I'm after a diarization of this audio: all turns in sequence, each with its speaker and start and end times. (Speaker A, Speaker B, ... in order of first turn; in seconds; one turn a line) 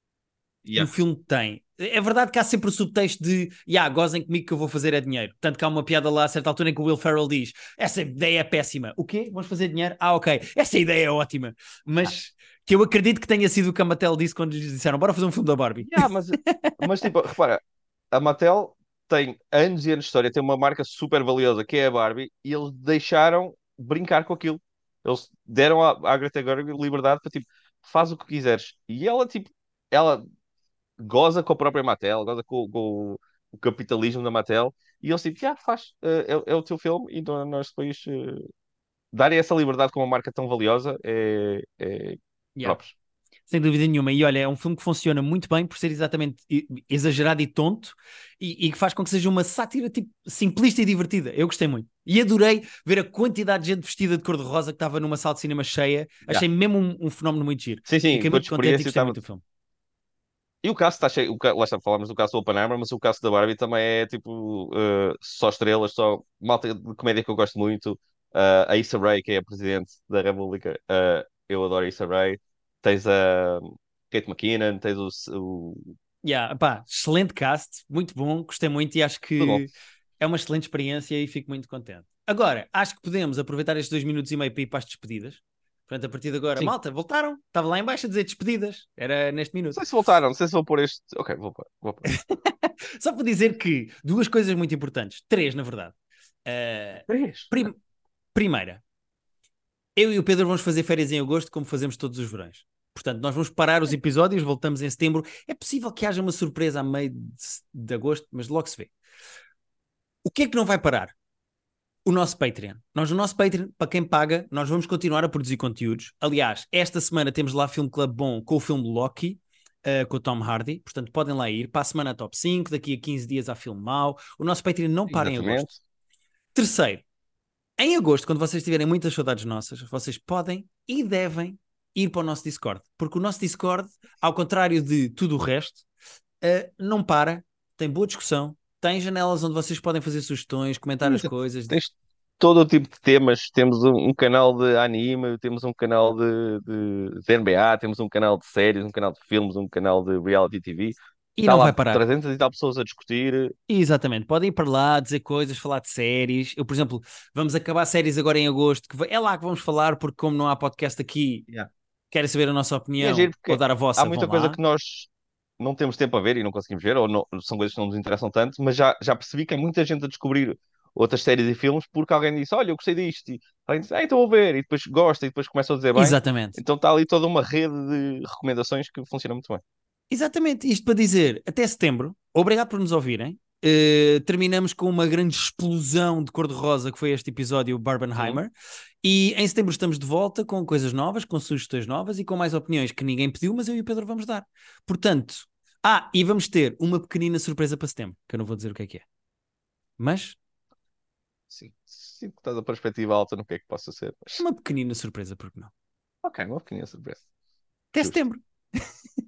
Speaker A: 0.6-0.9
Speaker B: 0.7-16.7
Speaker A: 15.8-30.2
Speaker A: 31.0-38.4
Speaker A: 39.1-42.9
Speaker B: 43.5-59.4
Speaker A: 57.9-59.2
Speaker A: 60.6-75.9
Speaker B: 76.2-89.8
Speaker A: 79.4-79.7
Speaker A: 89.7-92.1
Speaker B: 92.0-95.9
Speaker B: 96.5-97.8
Speaker A: 97.1-97.5
Speaker B: 98.3-98.8
Speaker B: 100.0-108.9
Speaker B: 110.2-111.1
Speaker B: 112.0-125.7
Speaker A: 125.1-125.8
Speaker B: 126.5-127.0
Speaker B: 127.8-135.8
Speaker B: 136.4-141.8
Speaker A: 141.0-153.5
Speaker B: 151.3-152.0
Speaker B: 153.7-161.4
Speaker B: 162.1-164.6
Speaker A: 163.0-179.6
Speaker B: 175.9-176.6
Speaker B: 180.1-188.5
Speaker B: 189.0-199.0
Speaker B: 200.0-200.4
Speaker A: 201.5-204.4
Speaker B: 204.3-205.7
Speaker A: 206.2-207.2
Speaker B: 207.9-208.9